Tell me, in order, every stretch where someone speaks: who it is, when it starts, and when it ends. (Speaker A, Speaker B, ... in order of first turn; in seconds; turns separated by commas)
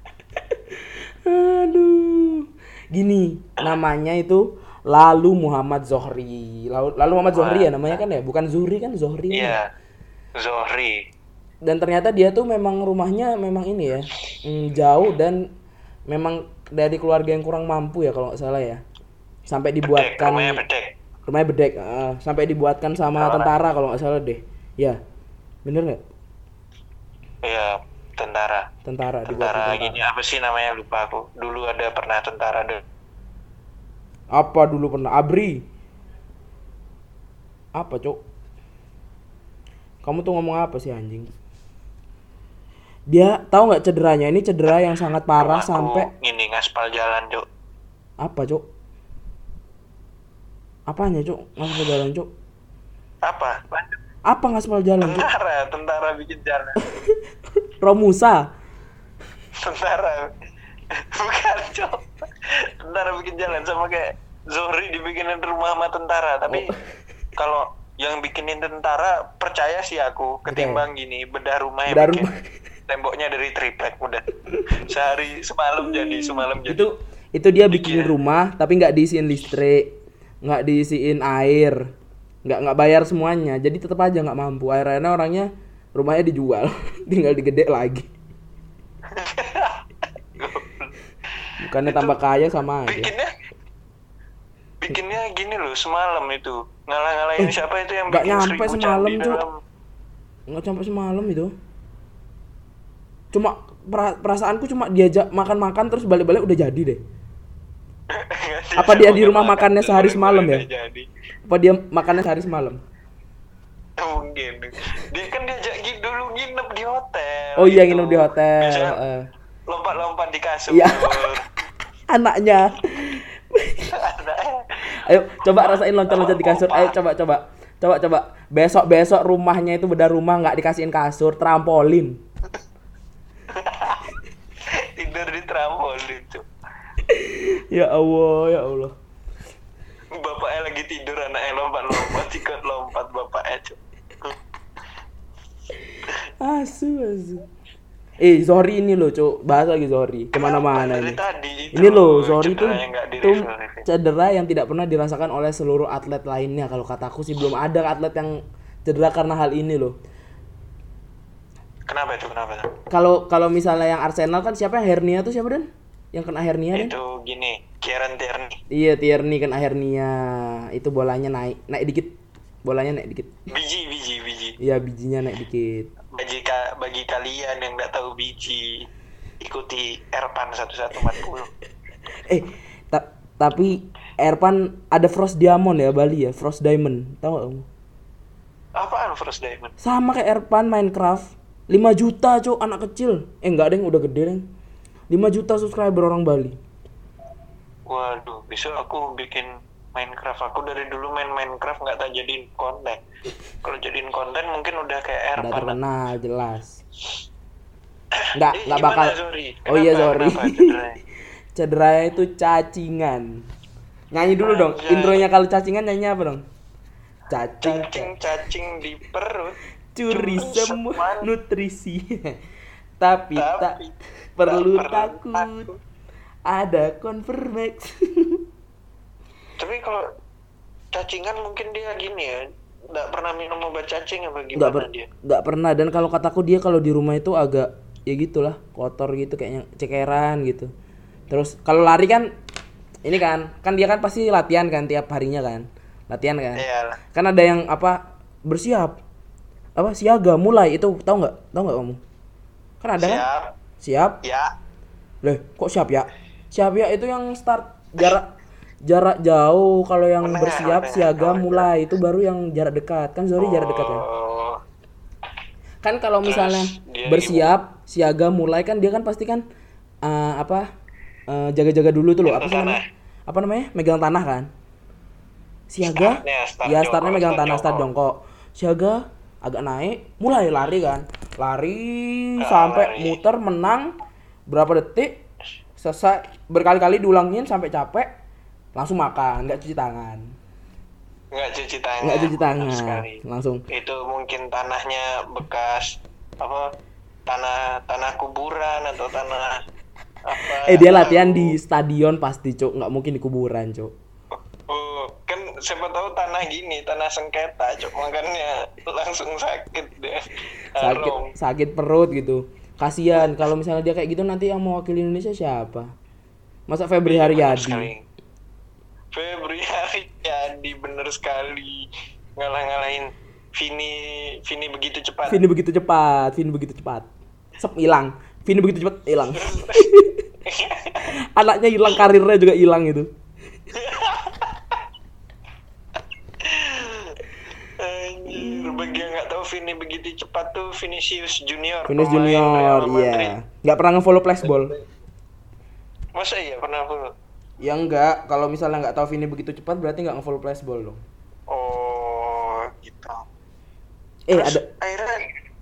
Speaker A: 0.7-9.6, Speaker B: 7.3-8.0, Speaker B: 9.3-9.6, Speaker B: 10.4-10.9, Speaker A: 11.6-15.5, Speaker A: 16.1-18.8, Speaker A: 19.5-20.6, Speaker B: 19.8-20.9, Speaker A: 21.3-25.0, Speaker B: 23.2-23.6, Speaker A: 25.6-26.0, Speaker B: 27.4-28.7, Speaker A: 28.8-30.0, Speaker B: 29.3-32.8, Speaker A: 34.3-35.6, Speaker A: 37.8-38.2, Speaker A: 40.0-41.3, Speaker A: 43.1-46.1, Speaker B: 45.4-47.5, Speaker A: 48.2-48.6, Speaker A: 50.9-52.3, Speaker B: 53.2-54.0, Speaker A: 54.3-55.3, Speaker B: 55.0-56.8, Speaker A: 57.8-58.5, Speaker B: 59.5-60.3, Speaker B: 60.9-66.7, Speaker A: 66.5-66.8, Speaker B: 67.4-72.3, Speaker A: 70.5-70.8, Speaker A: 71.9-72.5, Speaker B: 72.9-76.8, Speaker A: 74.5-74.8, Speaker A: 75.8-79.9, Speaker B: 77.7-78.1, Speaker A: 80.4-81.8, Speaker A: 82.4-88.1, Speaker B: 89.1-89.8, Speaker B: 90.3-90.9, Speaker A: 91.6-93.1, Speaker B: 91.8-92.2, Speaker B: 92.9-93.3, Speaker B: 94.8-99.6, Speaker A: 98.1-99.4, Speaker A: 100.5-101.5, Speaker A: 103.3-107.0, Speaker B: 108.1-111.1, Speaker A: 108.8-110.7, Speaker A: 111.5-112.8, Speaker B: 114.0-119.0, Speaker A: 117.6-119.3, Speaker B: 119.7-121.4, Speaker A: 120.7-121.3, Speaker A: 122.1-124.0, Speaker B: 123.9-124.9, Speaker A: 124.9-132.2, Speaker B: 125.6-126.9, Speaker B: 133.5-134.2, Speaker B: 134.7-136.4, Speaker A: 137.1-138.9, Speaker B: 140.1-144.3, Speaker A: 146.4-147.4, Speaker A: 148.2-151.2, Speaker B: 150.3-153.8, Speaker A: 151.7-159.9, Speaker B: 161.9-162.7, Speaker A: 162.9-166.9, Speaker B: 166.7-168.6, Speaker A: 168.7-173.3, Speaker B: 173.5-174.6, Speaker A: 174.6-175.9, Speaker B: 176.1-178.9, Speaker B: 179.4-181.5, Speaker A: 182.3-187.7, Speaker B: 188.8-189.7, Speaker A: 189.8-194.4, Speaker A: 195.1-196.6, Speaker B: 197.9-203.0, Speaker B: 203.6-205.8, Speaker A: 205.4-206.8, Speaker B: 208.1-211.0, Speaker A: 208.3-210.8, Speaker A: 211.5-213.4, Speaker A: 214.1-216.4, Speaker B: 214.4-215.2, Speaker A: 217.3-218.1, Speaker B: 217.6-219.6, Speaker A: 219.9-222.4, Speaker B: 220.1-221.3, Speaker A: 223.0-223.8, Speaker B: 223.3-223.9, Speaker A: 224.3-225.7, Speaker B: 224.5-225.8, Speaker A: 226.4-228.4, Speaker B: 229.6-230.0, Speaker B: 230.9-232.4, Speaker B: 232.9-235.1, Speaker A: 234.5-240.7, Speaker A: 241.3-242.3, Speaker A: 243.0-249.0, Speaker B: 246.6-247.0, Speaker A: 249.8-252.0, Speaker A: 252.8-253.2, Speaker B: 253.0-253.5, Speaker A: 253.8-254.2, Speaker B: 254.2-254.5, Speaker A: 255.2-258.3, Speaker A: 258.9-264.0, Speaker B: 260.2-261.7, Speaker B: 263.4-264.6, Speaker A: 265.8-269.4, Speaker B: 266.2-267.5, Speaker A: 270.0-270.7, Speaker A: 271.3-274.5, Speaker B: 272.2-272.8, Speaker A: 275.7-283.9, Speaker B: 275.8-277.9, Speaker B: 282.4-283.2, Speaker A: 284.5-285.2, Speaker A: 285.8-288.1, Speaker A: 288.8-290.3, Speaker B: 291.3-296.7, Speaker A: 292.0-293.6, Speaker B: 297.3-299.6, Speaker B: 300.2-301.6, Speaker A: 300.6-303.9, Speaker B: 304.7-311.3, Speaker A: 310.8-315.9, Speaker A: 316.7-317.9, Speaker B: 317.0-318.0, Speaker B: 319.1-325.4, Speaker A: 325.3-330.2, Speaker B: 329.3-329.9, Speaker B: 330.4-331.0, Speaker A: 331.4-333.1, Speaker B: 333.7-334.8, Speaker B: 336.4-337.2, Speaker B: 337.8-343.3, Speaker A: 338.3-339.0, Speaker A: 341.9-344.7, Speaker B: 344.4-344.8, Speaker B: 346.1-347.1, Speaker A: 347.6-351.0, Speaker B: 351.5-353.2, Speaker A: 354.3-354.7, Speaker B: 354.3-355.2